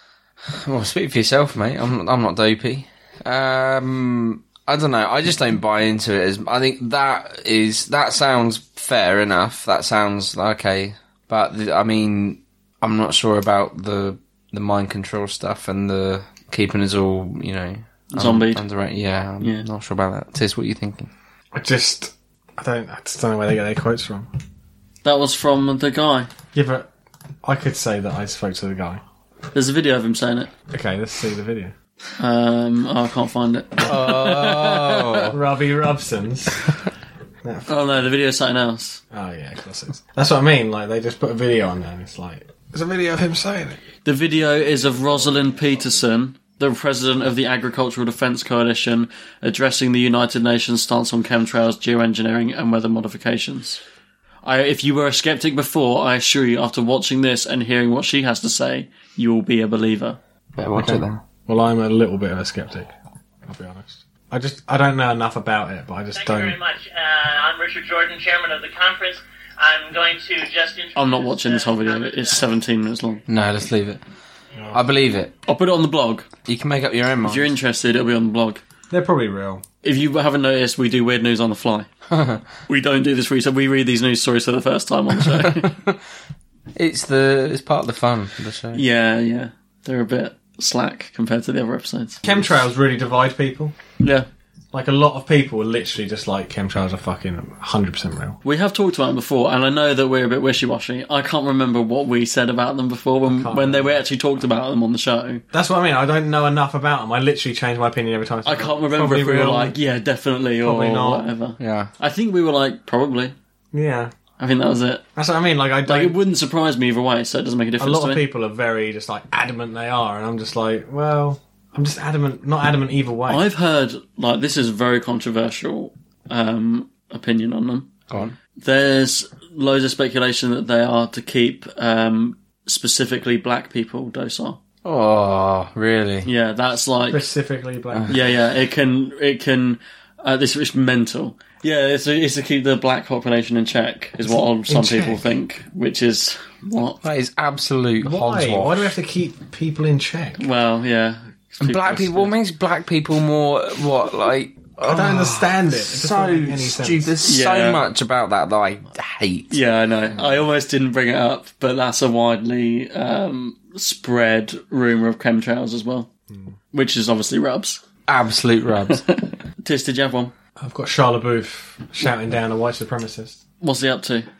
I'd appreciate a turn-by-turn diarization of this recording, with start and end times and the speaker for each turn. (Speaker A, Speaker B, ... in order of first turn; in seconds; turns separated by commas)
Speaker A: 0.5-21.1, Speaker B: 18.1-18.6, Speaker B: 19.4-19.6, Speaker C: 21.5-24.3, Speaker B: 25.0-26.3, Speaker C: 26.5-26.9, Speaker C: 27.4-29.0, Speaker B: 29.5-30.5, Speaker C: 30.7-31.7, Speaker B: 32.2-35.3, Speaker A: 33.8-35.4, Speaker C: 35.3-36.6, Speaker C: 37.4-37.7, Speaker B: 37.7-39.0, Speaker C: 39.1-43.8, Speaker B: 44.0-53.8, Speaker B: 54.4-60.2, Speaker A: 60.6-61.2, Speaker C: 60.7-62.9, Speaker C: 63.4-66.6, Speaker D: 66.2-72.5, Speaker B: 70.9-73.2, Speaker A: 73.3-74.0, Speaker C: 74.6-74.8, Speaker A: 74.7-75.3, Speaker B: 75.5-76.3, Speaker A: 76.5-77.5, Speaker B: 77.2-78.6, Speaker C: 78.9-79.6, Speaker B: 79.8-81.9, Speaker A: 82.1-82.4, Speaker B: 82.7-85.7, Speaker A: 85.5-86.0, Speaker A: 86.7-88.8, Speaker B: 88.7-92.2, Speaker C: 92.2-93.7, Speaker B: 94.0-94.3, Speaker C: 94.7-98.4, Speaker B: 98.4-105.4, Speaker C: 103.3-104.0, Speaker C: 105.5-109.8, Speaker B: 108.4-113.3, Speaker C: 110.6-111.3, Speaker A: 111.6-111.9, Speaker C: 113.7-114.1, Speaker B: 114.4-115.0, Speaker C: 115.2-116.2, Speaker B: 115.8-118.2, Speaker C: 117.8-123.5, Speaker B: 123.3-127.9, Speaker A: 128.1-128.3, Speaker B: 128.6-134.6, Speaker A: 134.8-136.3, Speaker B: 136.2-137.3, Speaker C: 137.1-138.2, Speaker B: 138.1-147.0, Speaker C: 144.2-145.2, Speaker A: 147.0-148.9, Speaker C: 148.0-150.4, Speaker B: 150.4-152.3, Speaker A: 151.6-159.6, Speaker C: 154.8-157.2, Speaker B: 157.2-157.8, Speaker B: 159.5-166.1, Speaker B: 166.7-167.8, Speaker A: 168.1-169.0, Speaker B: 168.9-170.3, Speaker C: 170.6-173.4, Speaker B: 173.6-174.3